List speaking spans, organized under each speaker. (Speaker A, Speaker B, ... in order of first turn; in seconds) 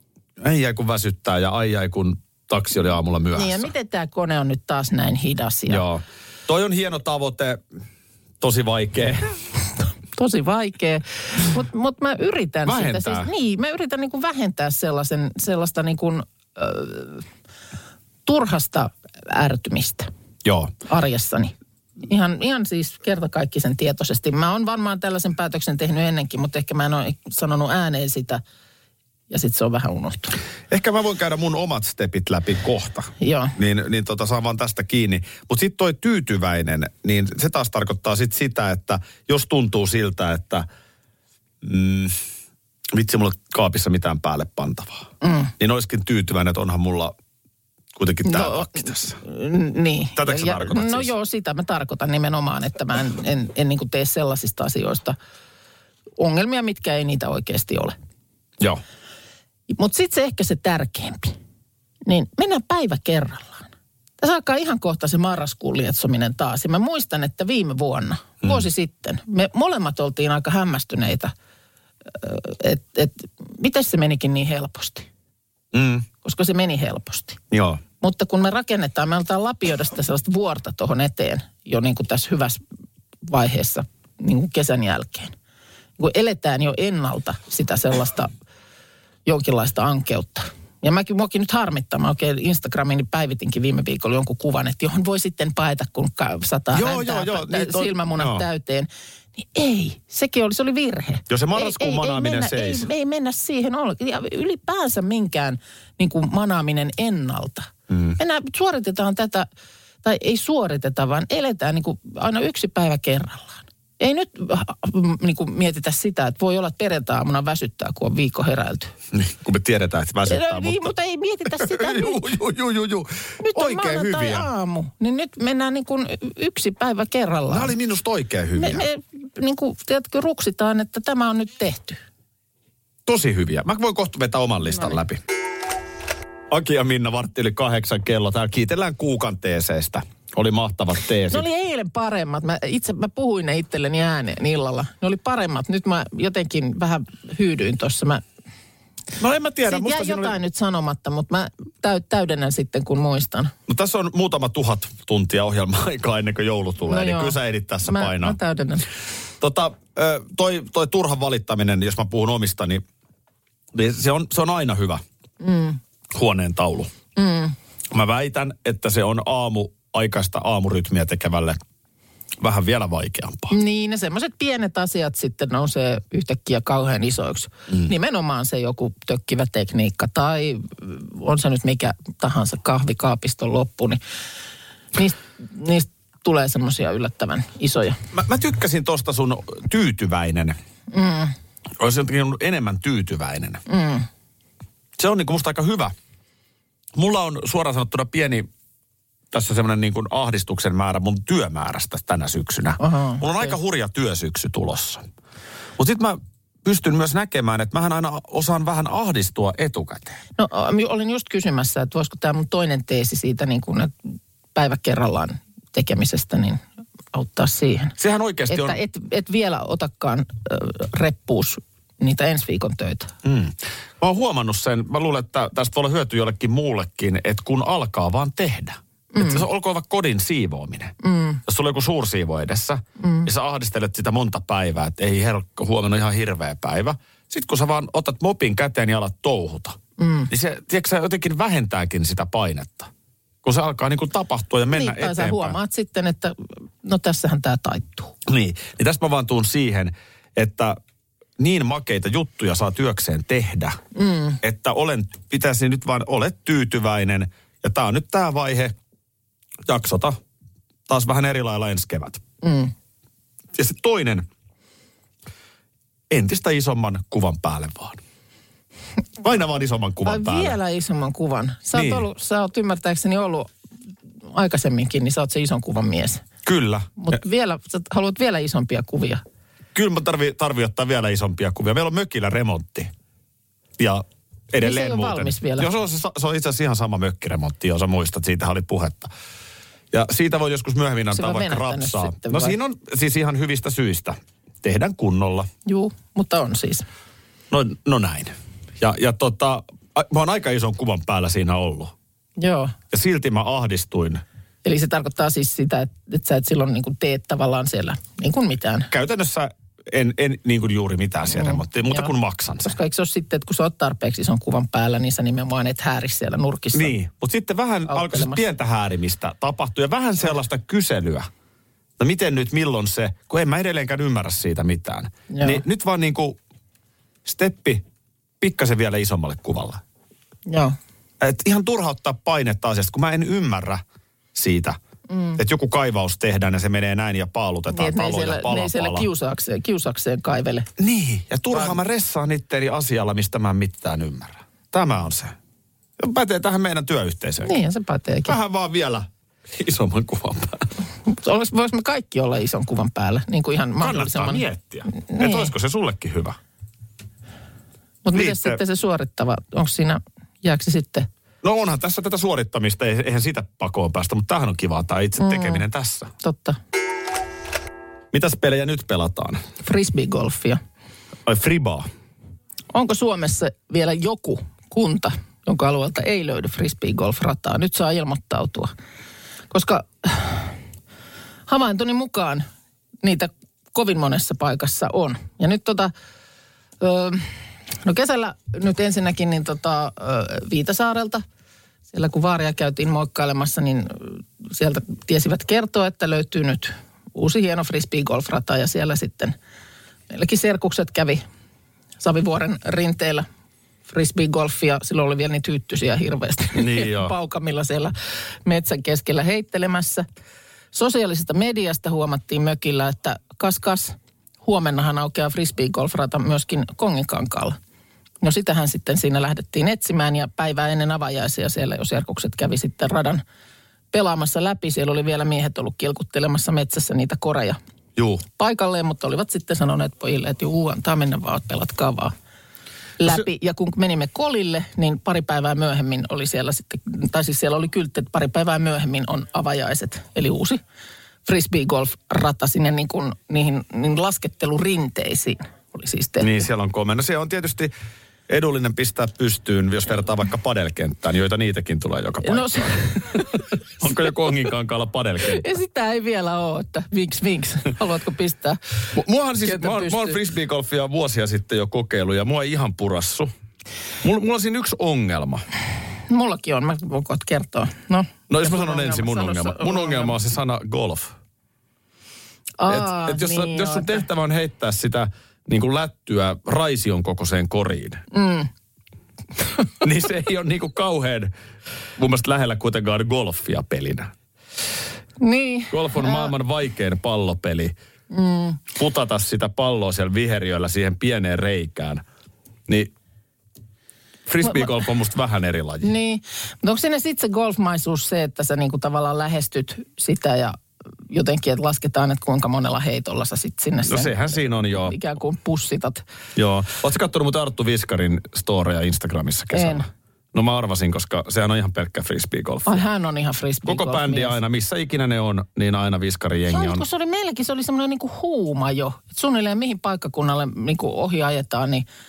Speaker A: 0.4-3.7, 5.7-7.6, 8.4-9.3, 12.7-13.3, 20.4-20.7, 30.7-40.7, 41.6-42.2, 42.9-45.1, 45.6-47.1, 48.0-49.2, 50.1-51.1, 75.7-76.1, 77.5-77.8, 96.7-98.5, 101.3-102.9, 107.9-108.2, 119.1-120.9, 121.5-124.5, 127.5-128.9, 133.1-135.2, 136.5-141.5, 149.2-150.4, 153.7-158.4, 159.4-162.8, 163.7-165.0, 166.1-166.9, 167.9-171.6, 172.4-173.5, 188.1-190.6, 191.8-193.6, 195.0-195.9, 196.9-198.5, 199.3-205.0, 205.8-210.2, 218.0-218.8, 223.2-239.8, 240.3-242.9, 243.4-245.6, 248.3-250.8, 251.4-253.8, 254.4-258.8, 259.6-260.2, 260.9-262.2, 263.6-264.3, 266.1-268.0, 269.2-270.6, 271.7-272.1, 276.4-277.2, 279.7-282.9, 283.8-289.1, 289.9-295.5, 297.5-301.9, 302.9-304.2, 308.9-312.8, 316.7-321.3, 322.0-326.4, 327.2-327.8, 328.4-329.8, 331.2-333.8, 334.3-334.8, 335.4-339.1, 340.8-345.4, 346.0-347.5, 348.2-350.7, 353.8-356.4, 358.1-358.6, 361.4-366.1, 368.1-369.4, 371.2-371.9, 406.5-407.1, 428.0-428.2, 446.2-447.7, 448.3-453.2, 453.8-455.4, 458.9-463.3, 464.0-465.4, 468.3-471.1, 472.7-478.0, 479.8-481.3, 482.0-484.1, 485.7-487.7, 488.8-492.0, 492.7-492.9, 494.3-495.9, 503.9-504.9, 506.4-512.8, 513.7-516.8
Speaker B: 3.3-5.8, 10.2-17.2, 18.3-20.1, 20.9-28.4, 29.3-30.4, 33.2-33.5, 45.2-45.5, 48.2-55.2, 56.2-58.0, 59.7-61.4, 62.1-63.7, 64.2-71.3, 72.1-75.1, 76.2-77.4, 78.0-82.6, 83.2-85.3, 86.0-88.3, 89.3-109.5, 110.0-118.9, 120.3-122.3, 123.4-127.7, 128.6-132.0, 141.3-148.2, 149.7-153.5, 156.9-158.9, 165.4-165.8, 167.2-167.6, 173.5-184.0, 184.9-188.0, 190.9-191.3, 193.7-194.1, 202.8-203.5, 210.4-213.9, 214.6-216.6, 217.1-217.9, 218.5-223.1, 229.1-229.4, 231.0-231.4, 233.0-233.3, 240.0-240.3, 244.7-248.1, 253.9-254.4, 262.4-262.7, 270.1-273.5, 274.3-276.2, 277.0-279.2, 284.6-285.7, 291.1-292.6, 295.7-296.9, 302.4-302.7, 304.6-308.9, 311.3-312.1, 312.6-317.0, 317.9-318.4, 325.3-325.6, 330.5-330.8, 335.1-335.4, 337.7-340.7, 341.5-341.8, 347.4-348.4, 351.1-355.5, 358.1-361.1, 365.2-365.6, 366.2-366.6, 369.6-370.6, 372.7-378.7, 379.5-380.5, 381.5-382.4, 383.0-385.9, 386.8-387.3, 387.8-391.2, 391.9-399.4, 400.1-401.2, 402.0-403.3, 403.9-407.9, 408.4-410.1, 410.7-417.6, 418.2-423.2, 423.9-427.6, 428.4-432.1, 433.0-440.6, 441.2-446.3, 452.2-453.4, 455.2-458.6, 459.4-460.2, 466.1-470.2, 472.6-474.1, 478.1-478.5, 485.2-486.3, 488.1-488.6, 494.4-494.7, 495.8-506.0, 509.5-509.9, 512.7-514.4, 516.5-521.9